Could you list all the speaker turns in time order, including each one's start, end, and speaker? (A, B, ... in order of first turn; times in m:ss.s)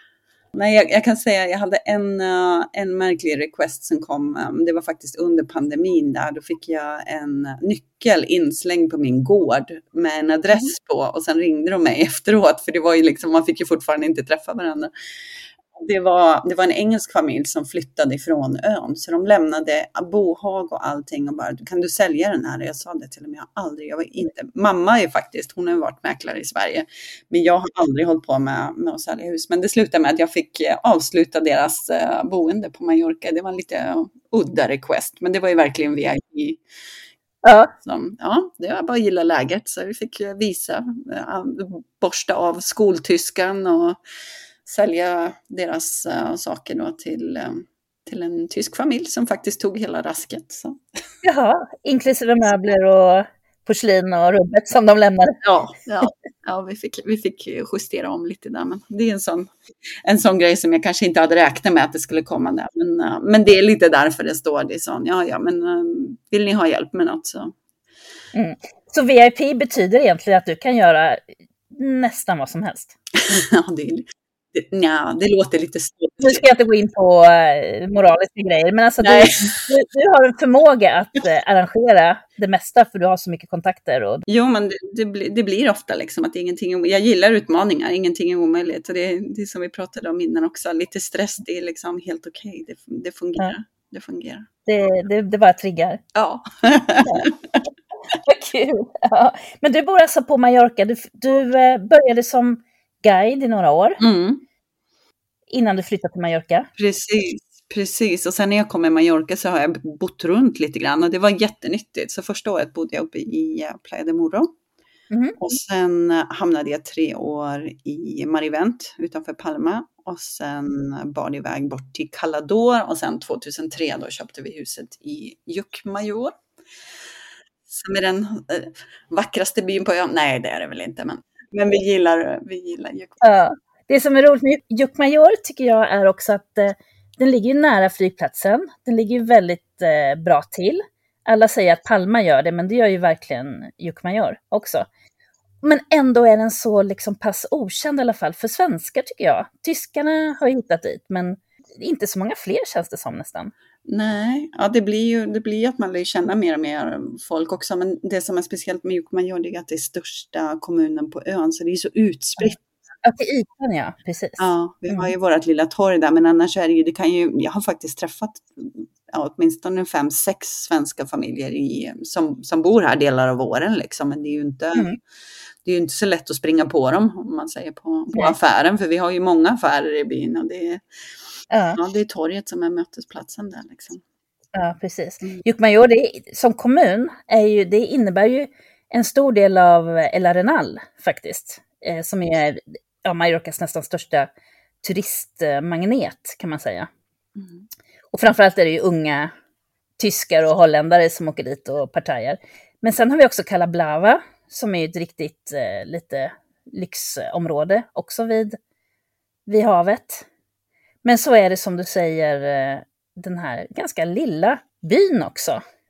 0:00.5-0:14.9 A
0:15.7-0:36.6 A
0:37.4-0:37.7 B
0:37.8-0:44.0 A
0:44.6-0:50.8 A
0:51.2-0:55.4 B
0:55.4-0:59.5 A
1:00.0-1:07.5 A
1:08.3-1:12.9 B
1:13.2-1:16.4 A
1:16.2-1:24.2 B
1:19.0-1:19.6 A
1:24.3-1:34.5 A
1:34.6-1:36.0 B
1:36.1-1:37.3 A
1:38.1-1:44.0 B
1:44.0-1:44.4 A
1:45.5-1:46.7 B
1:46.8-1:54.5 A
1:55.1-1:55.4 B
1:55.4-2:06.3 A
2:07.7-2:13.2 A
2:13.2-2:24.9 B
2:25.6-2:33.5 B
2:33.9-2:42.6 A
2:43.0-2:45.1 B
2:44.4-2:54.9 A
2:55.6-3:00.8 A
3:01.5-3:01.8 B
3:01.7-3:04.0 A
3:04.5-3:14.3 B
3:14.8-3:16.9 B
3:18.1-3:19.3 B
3:20.0-3:28.6 B
3:29.5-3:30.2 B
3:31.0-3:35.6 B